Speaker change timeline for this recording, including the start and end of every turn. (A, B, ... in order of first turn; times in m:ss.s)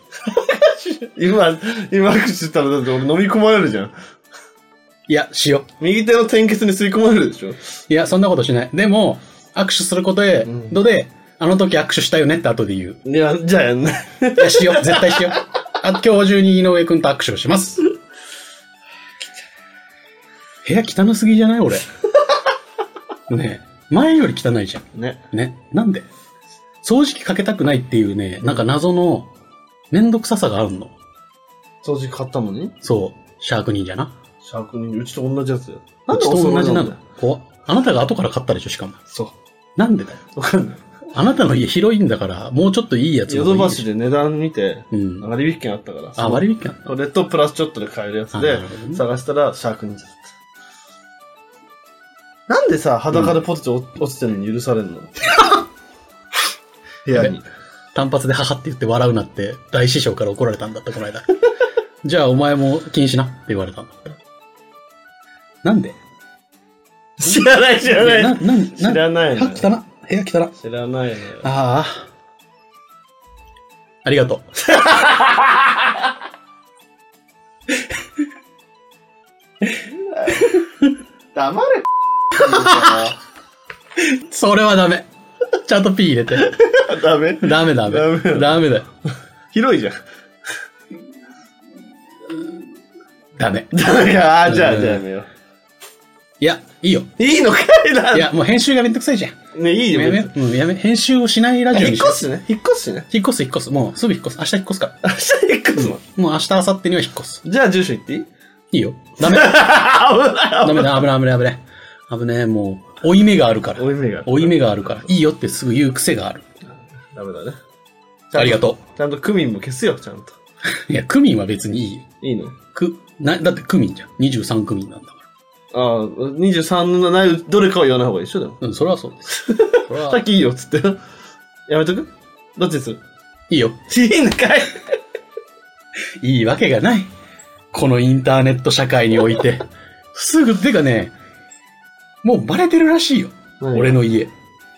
0:00.2-0:03.9 A
0:05.1-0:05.7 B
0:05.8-0:07.6 A
0:07.9-0:13.0 B
0:10.4-0:10.7 A
0:13.0-0:15.4 A
0:14.4-0:17.8 B
0:20.6-0:21.9 B
0:23.3-0:26.0 B
0:24.9-0:25.2 A
0:26.8-0:29.3 B
0:29.9-0:30.9 B
0:31.8-0:32.7 A
0:32.8-0:34.1 B
0:34.4-0:37.0 A
0:36.1-0:39.0 B
0:39.8-0:40.2 B
0:40.4-0:40.8 A
0:41.1-0:43.8 B
0:43.3-0:50.2 A
0:44.9-0:45.3 B
0:46.2-0:46.9 B
0:48.3-0:49.0 B
0:52.5-0:55.4 A
0:57.0-0:57.4 A
0:57.9-1:01.3 B
1:02.0-1:04.2 B
1:05.6-1:06.0 B
1:07.2-1:09.6 A
1:07.3-1:10.5 B
1:10.6-1:11.5 A
1:11.4-1:12.0 B
1:14.0-1:14.7 B
1:14.7-1:15.4 A
1:19.9-1:20.6 A
1:21.3-1:21.8 A
1:22.3-1:23.1 B
1:22.4-1:23.1 A
1:24.0-1:25.1 B
1:25.6-1:26.6 B
1:26.4-1:28.6 A
1:27.4-1:28.9 B
1:29.5-1:30.0 A
1:33.4-1:33.7 B
1:33.7-1:35.3 A
1:34.4-1:35.0 B
1:36.4-1:37.1 B
1:37.2-1:38.3 A
1:38.1-1:39.4 B
1:39.5-1:40.3 A
1:39.9-1:42.2 B
1:41.7-1:43.1 A
1:43.1-1:45.0 B
1:45.0-1:46.0 A
1:45.8-1:47.4 B
1:47.4-1:48.3 A
1:48.7-1:49.6 B
1:49.2-1:51.0 A
1:50.6-1:56.4 B
1:53.8-1:54.6 A
1:57.1-1:57.6 A
1:58.3-2:00.3 A
1:58.3-1:58.8 B
2:00.7-2:02.1 B
2:02.2-2:02.6 A
2:02.7-2:05.2 B
2:05.7-2:08.6 A
2:08.6-2:10.2 B
2:09.3-2:11.0 A
2:11.7-2:13.0 A
2:13.5-2:13.8 B
2:13.9-2:14.9 A
2:16.2-2:17.1 B
2:17.7-2:21.1 B
2:22.2-2:24.3 B
2:23.6-2:24.0 A